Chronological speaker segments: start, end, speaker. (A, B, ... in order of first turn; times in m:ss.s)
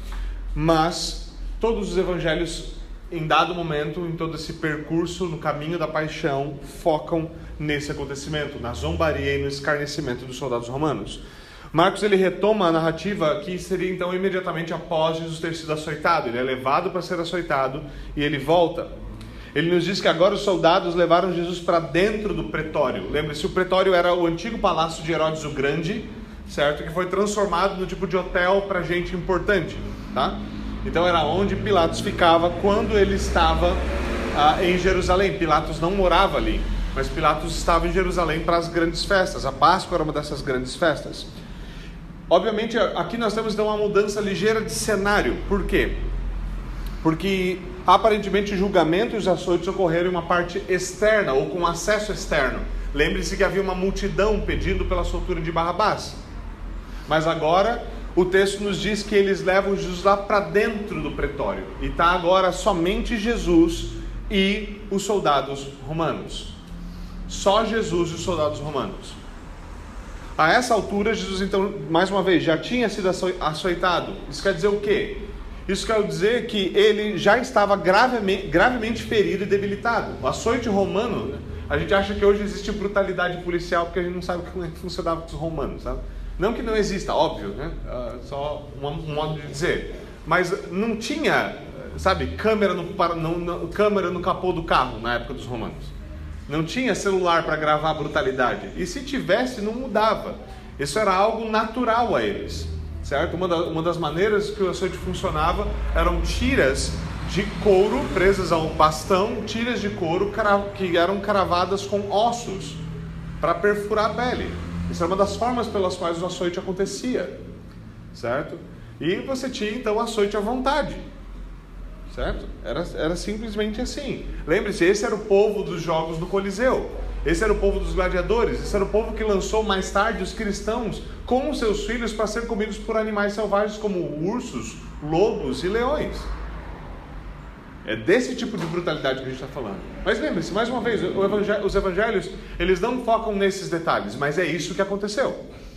0:00.5-0:11.2 A
0:11.7-0:18.9 A
0:19.5-0:33.8 A
0:34.3-0:41.3 A
0:42.3-0:46.0 A
0:47.0-0:56.2 A
0:57.1-1:06.5 A
1:07.3-1:09.2 A
1:10.4-1:35.9 A
1:36.5-1:52.8 A
1:53.4-1:57.4 A
1:58.1-2:01.1 A
2:02.1-2:16.3 A
2:17.8-2:25.4 A